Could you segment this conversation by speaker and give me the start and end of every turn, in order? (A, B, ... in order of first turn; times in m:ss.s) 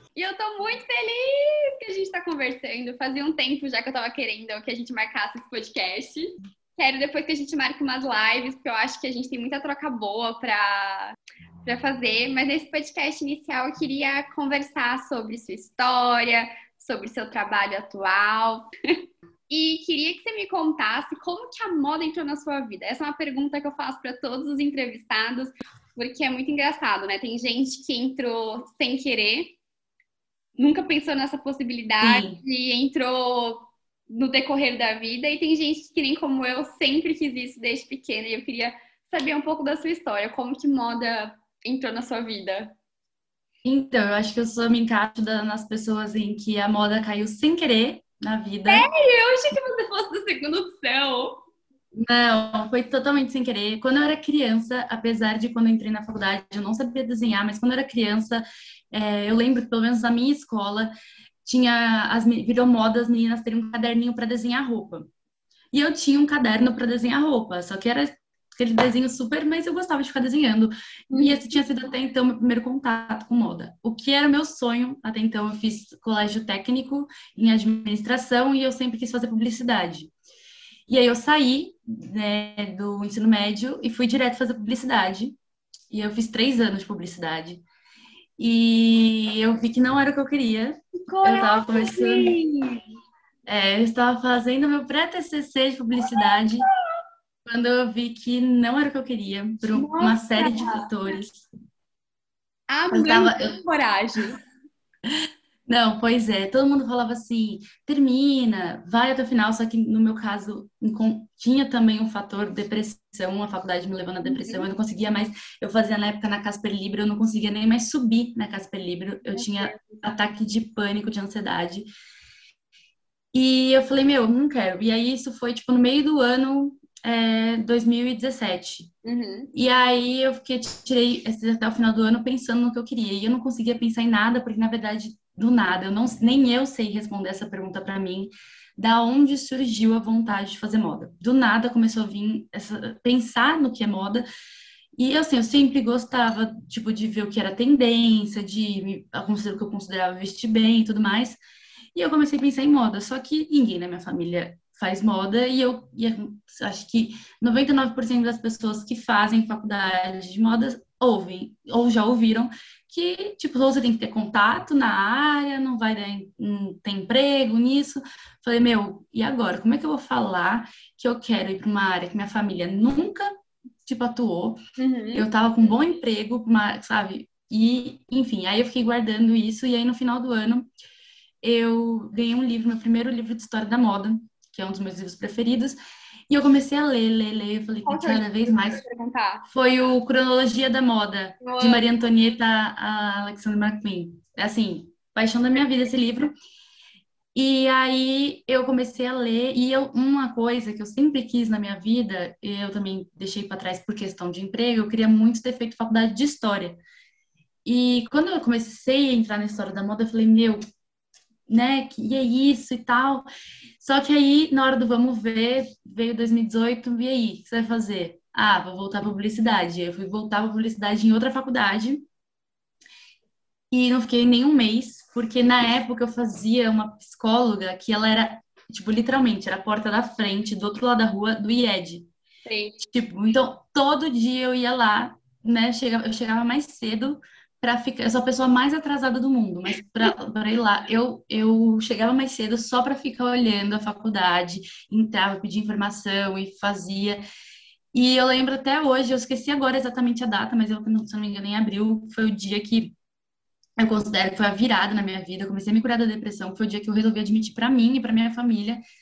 0:00.1-0:18.7 A
0:19.5-0:29.6 A
0:30.6-0:42.7 A
0:32.0-0:32.4 B
0:43.6-0:48.9 B
0:48.7-0:51.4 A
0:51.9-1:00.9 B
1:01.4-1:05.1 B
1:05.7-1:20.1 B
1:11.1-1:11.5 A
1:20.9-1:25.4 B
1:25.9-1:27.6 B
1:28.4-1:32.4 B
1:31.0-1:32.8 A
1:33.4-1:36.6 B
1:36.0-1:36.5 A
1:37.4-1:41.4 B
1:39.7-1:41.2 A
1:42.7-1:44.4 A
1:42.9-1:43.6 B
1:45.1-2:01.9 B
1:54.2-1:54.7 A
1:59.3-2:00.0 A
2:03.3-2:08.9 B
2:09.0-2:09.5 A
2:09.5-2:24.2 B
2:25.0-2:31.4 B
2:31.9-2:53.3 B
2:53.8-2:54.6 B
2:54.8-2:55.3 A
2:55.1-3:00.7 B
3:01.4-3:05.8 B
3:06.3-3:08.8 B
3:07.8-3:09.4 A
3:09.4-3:16.3 B
3:11.4-3:11.9 A
3:17.3-3:26.8 B
3:27.6-3:30.6 B
3:31.5-3:33.3 B
3:33.8-3:42.0 B
3:43.7-3:52.1 B
3:52.4-3:52.8 A
3:52.8-4:07.2 B
4:07.9-4:12.9 B
4:13.8-4:18.8 B